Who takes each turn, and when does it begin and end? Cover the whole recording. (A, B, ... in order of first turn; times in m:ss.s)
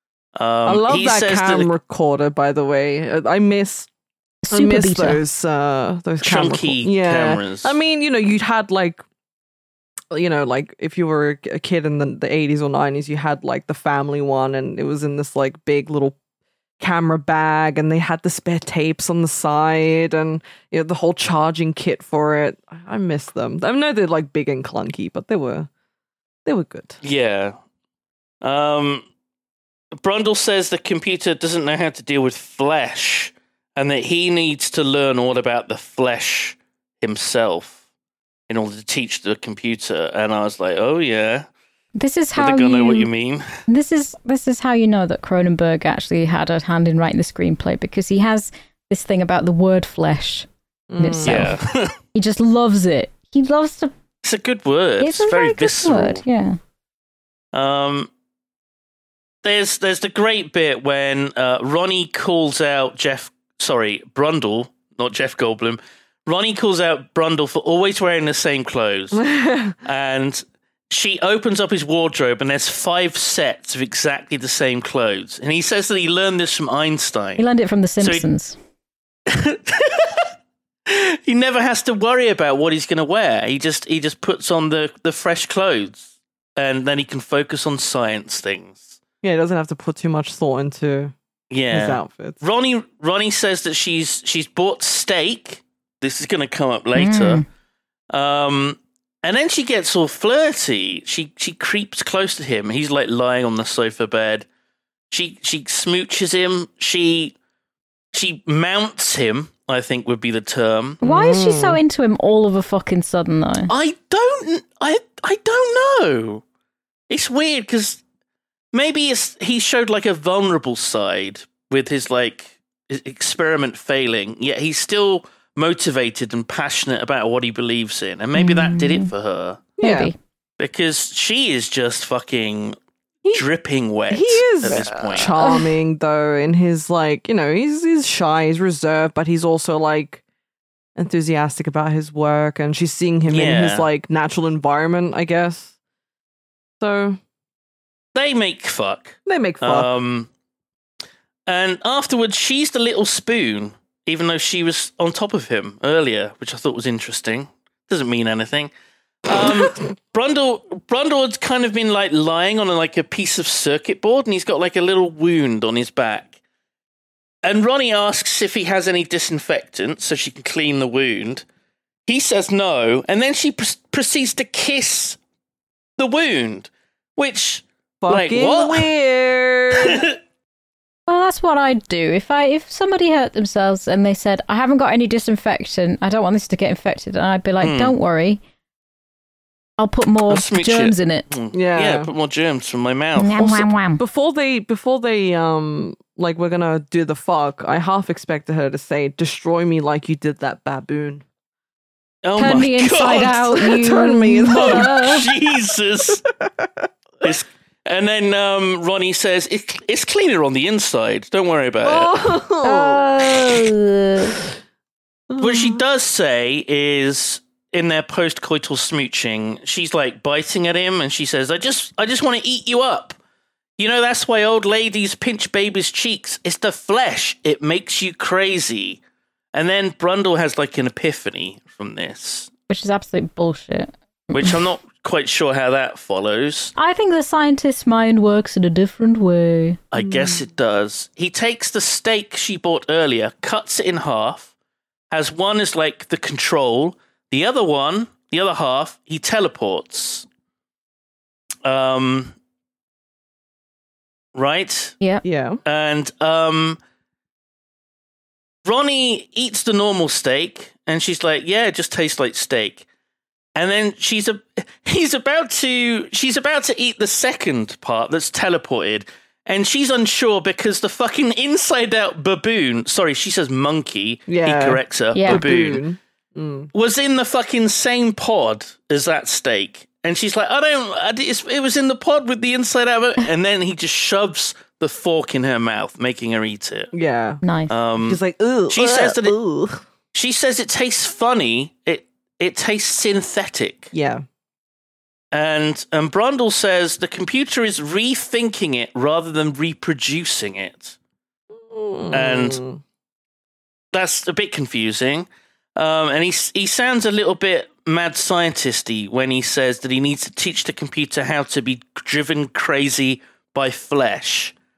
0:00.4-0:01.7 A
0:00.6-0:03.9 B
0:04.4-0:05.2 C
0:04.5-0:09.0 B
0:06.2-0:07.8 A
0:10.1-0:16.2 B
0:16.8-0:25.7 B
0:26.5-0:27.0 B
0:27.0-0:27.6 A
0:28.4-0:29.0 A
0:29.9-0:37.8 A
0:38.5-0:41.5 A
0:42.0-0:43.1 C
0:42.4-0:43.5 A
0:43.7-0:50.5 C
0:50.9-0:51.6 B
0:51.0-0:51.6 C
0:51.2-0:52.0 A
0:52.1-0:53.9 C
0:54.2-0:56.2 A
0:55.0-0:56.6 C
0:57.5-0:58.1 A
0:59.4-1:17.4 A
1:09.2-1:09.8 B
1:17.4-1:18.6 C
1:19.3-1:20.3 A
1:20.9-1:29.0 A
1:29.2-1:31.1 B
1:31.5-1:37.4 A
1:31.7-1:32.4 B
1:37.0-1:37.4 C
1:38.1-1:44.5 A
1:45.1-1:47.4 A
1:48.1-1:51.0 A
1:51.0-1:51.8 B
1:51.0-1:53.7 C
1:53.7-1:56.4 A
1:57.1-1:58.0 A
1:58.7-2:09.6 A
2:08.4-2:09.1 C
2:09.8-2:10.1 B
2:09.8-2:10.2 C
2:10.6-2:12.8 A
2:13.3-2:15.3 A
2:14.1-2:20.2 B
2:15.4-2:15.7 C
2:21.0-2:25.7 B
2:23.3-2:23.9 A
2:26.8-2:27.2 B
2:28.2-2:30.3 A
2:29.3-2:29.9 B
2:31.5-2:38.7 A
2:39.3-2:46.3 A
2:39.4-2:39.7 B
2:47.4-2:51.4 A
2:52.1-2:55.2 A
2:56.0-2:58.9 A
2:58.0-3:00.0 B
2:59.8-3:00.2 A
3:01.1-3:08.4 C
3:07.6-3:08.0 A
3:09.8-3:11.3 C
3:10.3-3:13.5 A
3:11.5-3:12.1 B
3:13.2-3:14.0 C
3:13.4-3:21.2 B
3:22.2-3:23.7 A
3:22.4-3:25.3 C
3:23.1-3:25.1 B
3:24.5-3:26.2 A
3:26.1-3:26.9 B
3:27.2-3:32.4 A
3:31.8-3:33.6 B
3:32.6-3:34.4 C
3:35.3-3:35.8 B
3:35.4-3:43.2 A
3:43.8-3:49.0 A
3:49.5-3:52.5 A
3:52.7-3:54.6 C
3:54.3-3:56.7 A
3:56.8-3:59.8 C
3:59.9-4:04.5 A
4:00.0-4:00.4 B
4:05.1-4:10.3 A
4:11.6-4:12.3 A
4:14.4-4:15.0 A
4:15.2-4:15.6 B
4:15.7-4:16.8 A
4:18.6-4:22.8 A
4:23.6-4:35.8 A
4:34.3-4:36.7 B
4:35.1-4:35.5 C
4:36.7-4:46.9 A
4:46.9-4:47.4 B
4:47.4-4:47.7 C
4:47.7-4:49.4 A
4:48.0-4:49.8 B
4:50.1-4:53.9 A
4:53.9-4:54.2 B
4:55.3-5:01.0 A
5:01.5-5:02.8 B
5:02.1-5:02.6 A
5:03.9-5:14.6 A